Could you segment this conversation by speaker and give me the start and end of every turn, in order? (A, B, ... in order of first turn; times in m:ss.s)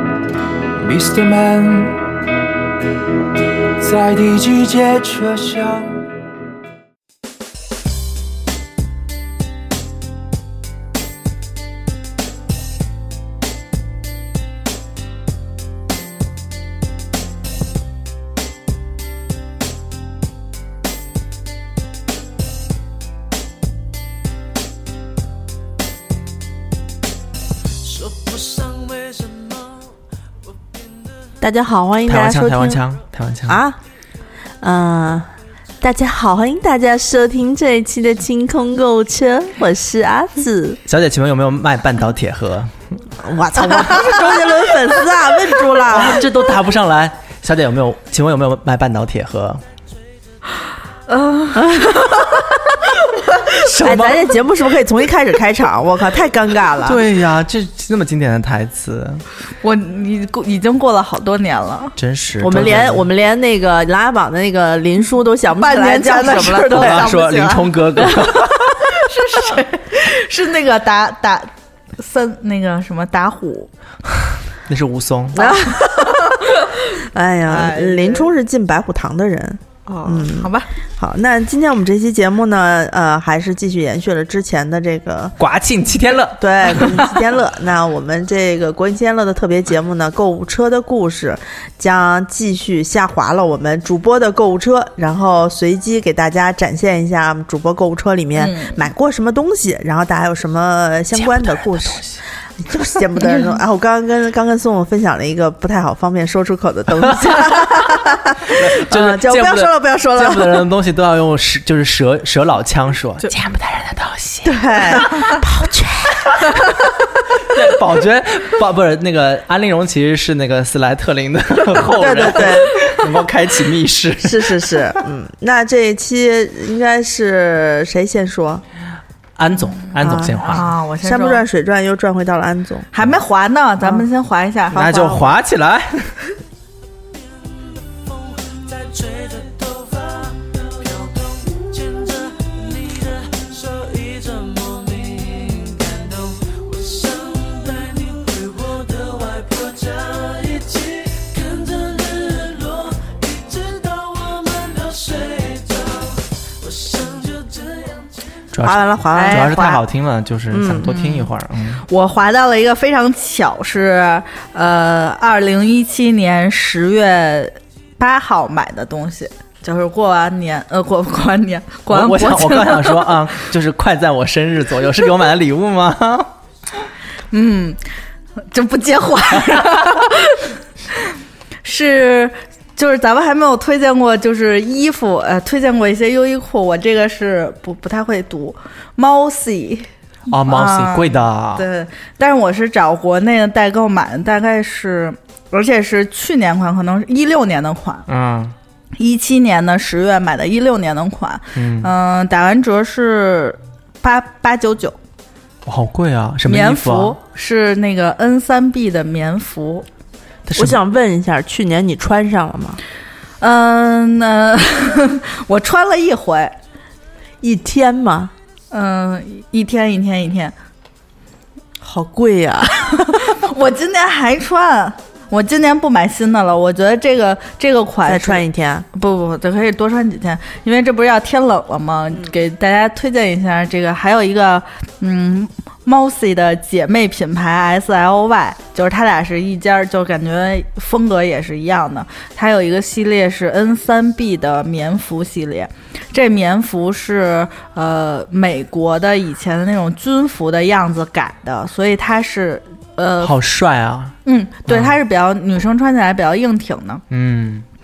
0:00.8-0:02.0 A
0:03.8-0:05.9 A
0:27.9-0:29.7 B
0:31.4-0:32.8 C
0:32.1-0:33.6 D
0:33.5-0:33.8 C
0:34.6-0:40.8 C
0:40.9-0:42.7 D
0:43.2-0:46.2 C
0:45.8-0:49.6 D
0:51.1-0:54.2 E
0:51.5-0:52.4 C
0:53.8-0:54.3 D
0:53.8-0:57.0 C
0:56.8-0:59.2 D
0:59.6-1:02.0 E
1:02.0-1:03.1 D
1:02.4-1:07.1 C
1:05.5-1:13.7 E
1:06.6-1:08.8 D
1:14.6-1:15.4 D
1:15.3-1:16.4 C
1:15.4-1:16.7 E
1:17.0-1:25.4 C
1:17.5-1:18.3 E
1:19.9-1:20.7 E
1:25.4-1:27.0 D
1:26.4-1:42.0 C
1:38.3-1:38.8 E
1:41.1-1:42.2 D
1:42.6-1:50.6 C
1:48.5-1:55.2 D
1:54.4-1:56.6 C
1:57.5-2:05.0 D
2:01.8-2:03.0 C
2:04.2-2:08.6 C
2:09.4-2:10.7 D
2:10.0-2:12.9 C
2:10.2-2:11.4 E
2:12.9-2:15.1 E
2:14.7-2:16.2 D
2:14.7-2:15.3 C
2:18.7-2:20.2 B
2:21.8-2:38.0 B
2:38.5-2:41.8 D
2:38.6-2:39.8 C
2:39.1-2:39.7 E
2:40.5-2:40.9 C
2:40.8-2:41.3 E
2:41.8-2:53.4 E
2:51.9-2:56.3 D
2:57.3-2:57.8 E
2:58.5-3:01.1 E
3:01.6-3:18.0 E
3:10.3-3:11.6 D
3:18.1-3:18.5 D
3:19.0-3:25.0 E
3:21.5-3:21.9 D
3:25.6-3:27.2 D
3:26.4-3:29.8 E
3:30.4-3:30.8 D
3:30.5-3:32.8 C
3:33.4-3:36.5 E
3:37.4-3:38.3 C
3:38.7-3:40.5 E
3:41.8-3:43.3 C
3:42.9-4:13.3 E
3:48.0-3:48.8 C
4:13.2-4:14.2 D
4:14.2-4:17.0 E
4:14.7-4:15.0 D
4:17.1-4:17.6 D